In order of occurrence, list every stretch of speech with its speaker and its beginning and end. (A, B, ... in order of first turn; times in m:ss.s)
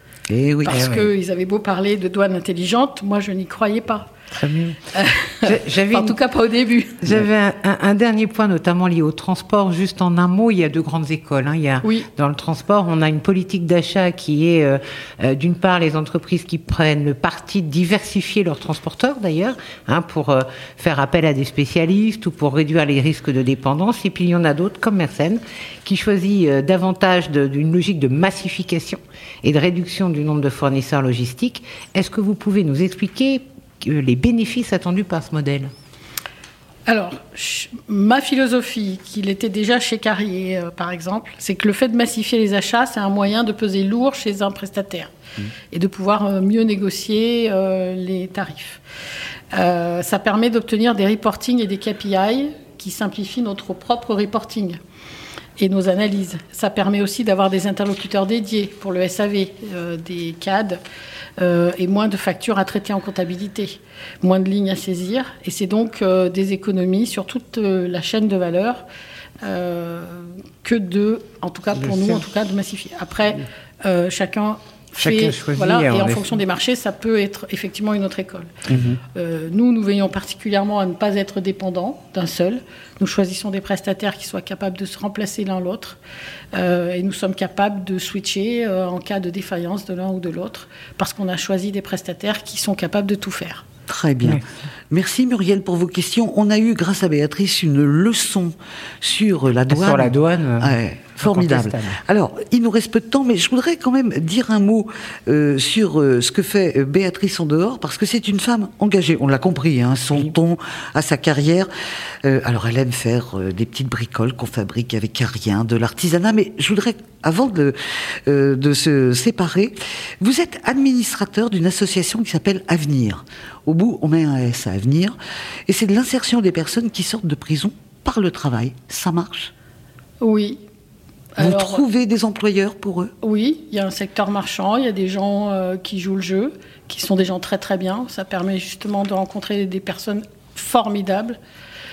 0:00.3-0:00.8 A
0:00.6-0:04.1 B
0:00.7-0:01.1 C
0:04.3-0:04.8 C
0:04.9-0:07.1 B
0:05.4-0:06.1 C
0:07.0-0:35.7 C
0:11.8-0:12.1 B
0:36.9-0:45.1 B
0:45.7-0:48.8 B
0:49.5-0:54.8 B
0:55.6-1:00.8 B
1:01.4-1:08.8 B
1:09.4-1:18.5 B
1:15.0-1:16.3 C
1:18.7-1:19.0 A
1:19.1-1:26.0 B
1:26.5-1:33.6 B
1:33.9-1:51.7 A
1:39.7-1:42.0 C
1:52.2-2:05.1 A
2:05.7-2:09.5 A
2:10.2-2:10.6 B
2:11.4-2:11.8 B
2:11.4-2:13.1 A
2:13.2-2:21.4 B